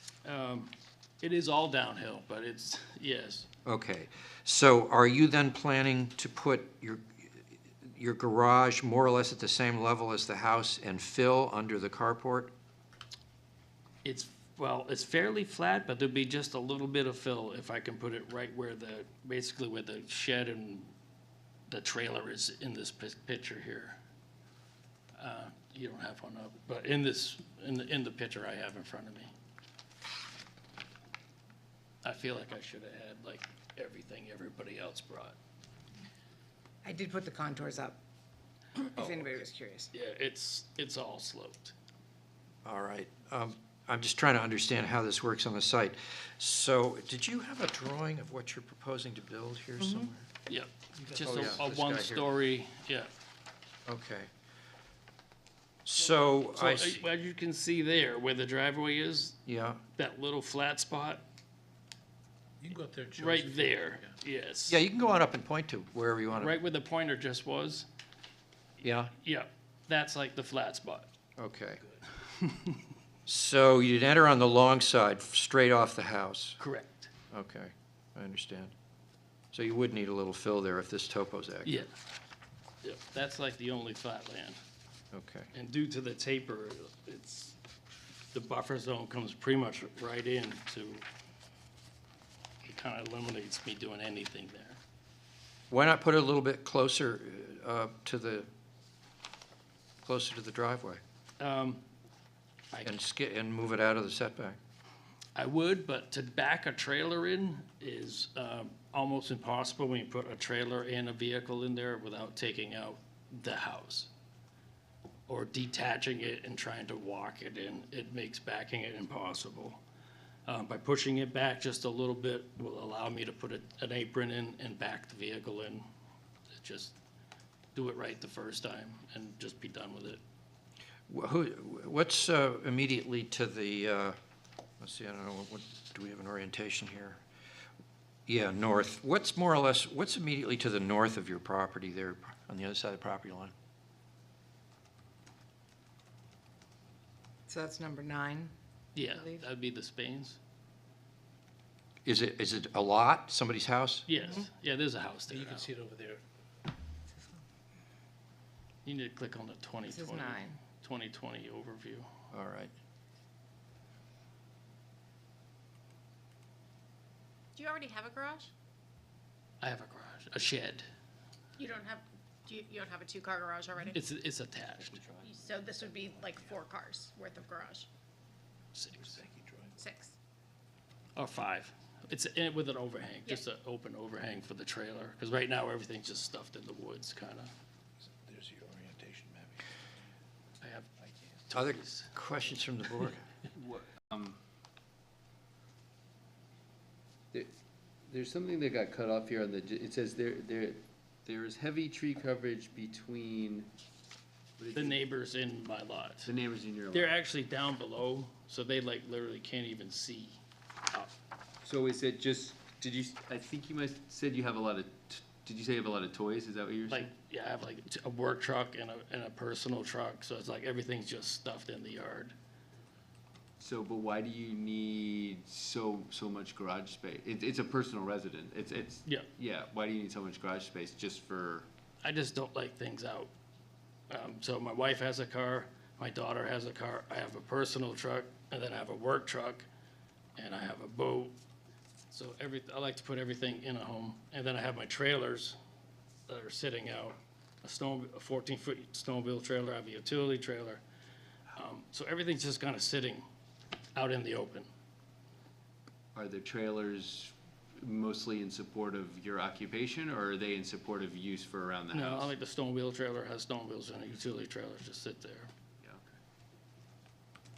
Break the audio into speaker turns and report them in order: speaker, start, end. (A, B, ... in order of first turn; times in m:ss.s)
0:00.2-0:03.5 A
0:03.6-0:07.0 B
0:07.8-0:12.5 B
0:14.0-0:20.9 A
0:21.7-0:24.0 A
0:25.2-0:29.3 A
0:32.0-0:35.4 A
0:36.8-0:38.0 C
0:38.8-0:39.9 C
0:39.9-0:41.7 A
0:42.6-0:50.3 B
0:49.8-0:50.1 C
0:50.5-0:53.1 A
0:51.1-0:51.4 D
0:51.1-0:52.3 B
0:53.8-0:54.3 B
0:55.8-0:57.0 B
0:56.5-0:59.4 A
0:59.5-0:59.8 B
1:00.0-1:01.2 A
1:02.6-1:03.8 D
1:03.1-1:04.8 A
1:04.7-1:06.6 B
1:06.3-1:07.9 A
1:08.8-1:09.1 B
1:09.2-1:11.1 A
1:11.4-1:11.8 B
1:12.3-1:12.8 A
1:13.3-1:16.6 B
1:16.6-1:17.1 A
1:17.3-1:18.7 B
1:19.5-1:21.8 B
1:21.6-1:21.9 A
1:22.8-1:24.6 A
1:25.1-1:25.5 B
1:25.5-1:27.6 A
1:28.3-1:31.0 A
1:32.6-1:34.8 A
1:35.7-1:38.5 B
1:40.0-1:41.0 B
1:41.4-1:41.8 A
1:42.7-1:43.0 A
1:42.8-1:44.6 B
1:45.3-1:54.1 A
1:55.3-1:59.8 A
2:00.4-2:05.8 A
2:06.6-2:06.9 A
2:07.7-2:10.2 A
2:11.1-2:14.2 B
2:14.8-2:17.2 B
2:18.3-2:23.5 B
2:27.5-2:28.5 C
2:28.9-2:30.4 A
2:32.0-2:34.1 B
2:34.1-2:35.7 A
2:35.3-2:36.2 D
2:38.8-2:42.1 A
2:39.9-2:40.6 C
2:42.3-2:42.7 B
2:47.6-2:48.5 E
2:49.6-2:50.8 A
2:51.6-2:54.0 E
2:53.9-2:55.0 A
2:55.2-2:57.9 E
2:58.7-2:59.2 A
2:59.1-2:59.7 D
2:59.8-3:00.2 E
3:01.2-3:07.5 A
3:08.2-3:09.7 D
3:10.6-3:10.9 A
3:11.5-3:12.1 A
3:11.5-3:13.2 B
3:13.5-3:14.4 F
3:18.1-3:23.7 F
3:24.6-3:25.0 F
3:24.7-3:26.3 A
3:26.2-3:27.1 F
3:26.9-3:30.4 A
3:31.6-3:37.1 F
3:36.9-3:42.3 A
3:43.6-3:51.7 F
3:52.0-3:53.3 A
3:54.1-3:59.6 A
4:00.4-4:01.3 A
4:02.1-4:05.6 A
4:06.3-4:10.8 A
4:11.5-4:13.2 A
4:13.9-4:14.7 A
4:16.1-4:22.3 F
4:21.9-4:25.5 A
4:25.8-4:26.1 F